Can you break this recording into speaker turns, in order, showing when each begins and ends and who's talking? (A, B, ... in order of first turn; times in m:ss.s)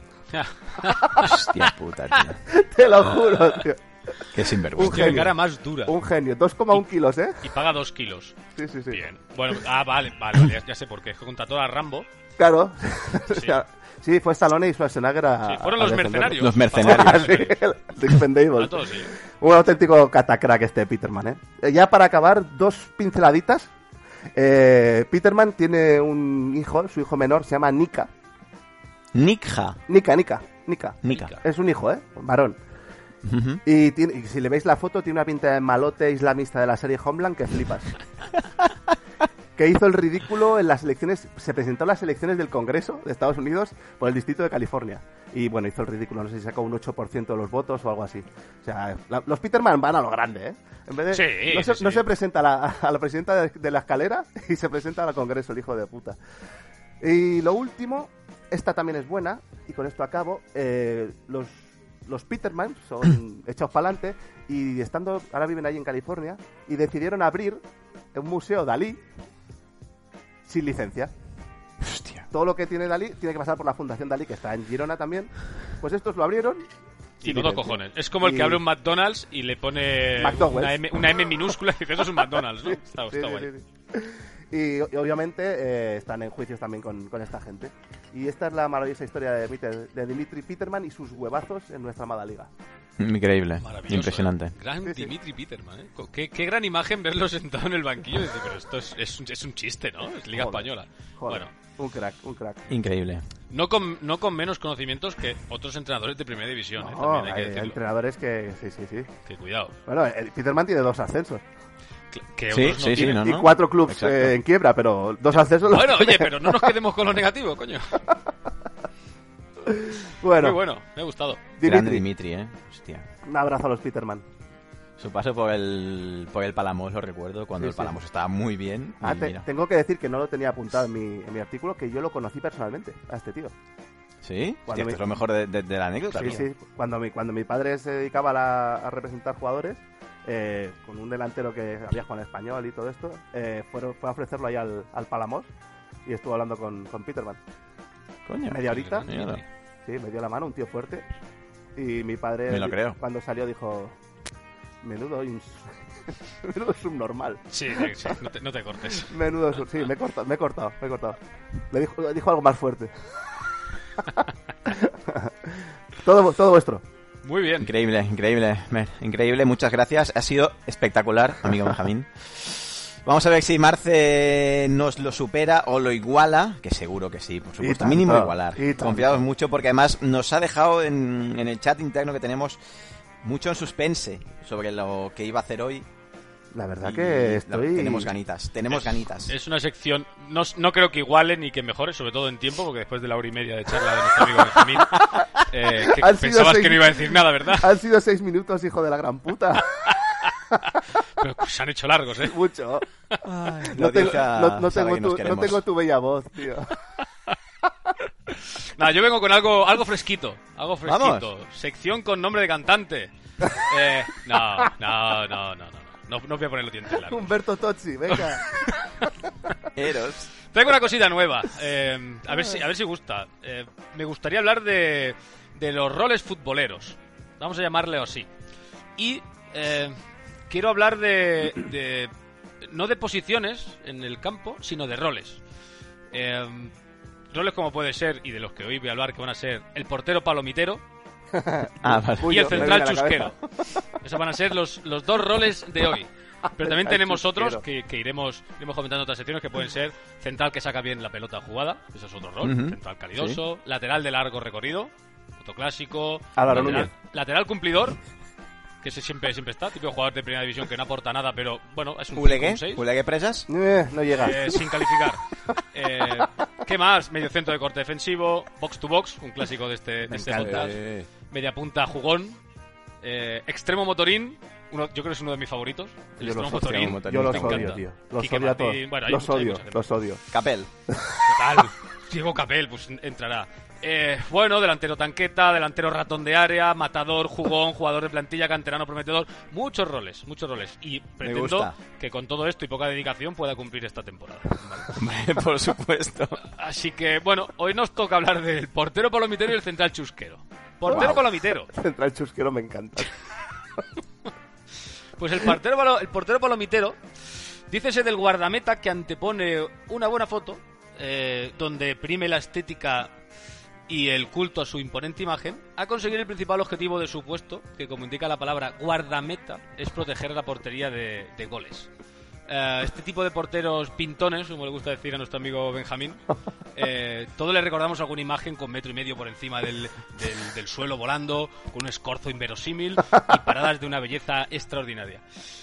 0:00.3-0:01.7 A
0:01.2-0:02.4 B
0:02.5-0:05.3 C
0:04.3-0:05.3 B
0:04.8-0:05.9 A
0:05.8-0:07.4 C
0:07.4-0:08.4 A
0:08.5-0:09.0 C
0:08.9-0:12.0 A
0:12.4-0:23.7 C
0:15.4-0:17.6 A
0:16.4-0:17.5 B
0:18.6-0:19.1 A
0:24.4-0:28.1 C
0:29.1-0:29.8 B
0:29.9-0:32.6 C
0:31.0-0:31.3 B
0:33.2-0:33.6 B
0:33.6-0:37.9 C
0:39.6-0:56.2 C
0:51.1-0:52.0 A
0:57.0-1:07.6 C
1:08.1-1:09.0 C
1:10.5-1:11.1 C
1:11.8-1:12.2 B
1:12.3-1:16.6 C
1:17.2-1:23.5 A
1:17.2-1:18.6 C
1:20.2-1:21.0 C
1:22.6-1:32.5 C
1:33.0-1:34.5 B
1:33.6-1:41.5 A
1:34.8-1:35.1 C
1:40.3-1:40.7 C
1:41.2-1:42.6 C
1:42.7-1:43.2 B
1:43.5-1:47.8 A
1:46.8-1:49.1 C
1:49.2-1:49.7 A
1:49.9-1:51.4 C
1:52.1-1:53.2 A
1:52.5-1:54.4 B
1:52.8-1:56.7 C
1:55.6-1:58.0 A
1:59.6-2:00.6 C
2:00.4-2:01.4 A
2:01.6-2:02.0 C
2:01.6-2:03.0 B
2:03.2-2:04.2 C
2:05.0-2:09.4 B
2:07.6-2:08.0 C
2:09.0-2:13.5 C
2:14.2-2:16.4 B
2:14.7-2:15.0 C
2:16.1-2:25.5 C
2:26.0-2:27.4 C
2:28.2-2:29.4 B
2:28.5-2:29.1 C
2:28.7-2:29.4 A
2:29.8-2:31.0 C
2:31.8-2:34.0 C
2:32.5-2:33.0 B
2:34.8-2:35.7 C
2:36.4-2:38.1 C
2:37.5-2:39.1 A
2:38.9-2:41.2 C
2:41.7-2:42.9 C
2:44.1-2:46.8 C
2:47.2-2:47.7 A
2:47.6-3:02.6 B
2:57.6-2:59.2 C
3:03.2-3:05.8 B
3:06.5-3:08.1 C
3:06.8-3:09.3 B
3:08.7-3:17.7 A
3:15.8-3:19.9 C
3:21.2-3:22.4 A
3:22.2-3:22.8 C
3:23.2-3:25.6 B
3:23.6-3:26.7 C
3:28.4-3:37.3 A
3:30.8-3:31.3 B
3:37.0-3:38.6 C
3:38.1-3:38.9 A
3:39.7-3:40.3 B
3:40.5-3:48.3 A
3:49.0-3:49.9 A
3:50.5-3:55.4 A
3:56.1-3:56.7 A
3:57.3-4:00.8 A
4:01.3-4:03.4 C
4:01.8-4:02.8 B
4:02.2-4:03.4 A
4:04.0-4:18.0 A
4:06.6-4:07.6 C
4:12.4-4:13.4 B
4:16.4-4:16.9 C
4:16.5-4:16.9 B
4:18.8-4:22.8 A
4:22.1-4:23.5 B
4:23.5-4:24.6 C
4:24.1-4:25.2 A
4:25.7-4:30.8 A
4:30.1-4:30.8 C
4:30.4-4:31.1 B
4:31.3-4:32.4 A
4:33.0-4:39.8 A
4:36.2-4:40.2 C
4:36.2-4:37.8 B
4:40.3-4:40.7 B
4:40.9-4:41.6 C
4:41.2-4:54.9 A
4:51.2-4:51.7 B
4:54.9-4:56.4 B
4:56.4-5:01.7 A
5:00.9-5:01.2 C
5:00.9-5:01.2 B
5:01.7-5:03.1 C
5:05.2-5:07.0 A
5:07.7-5:13.1 A
5:13.9-5:21.9 A
5:22.5-5:26.2 A
5:26.7-5:35.2 A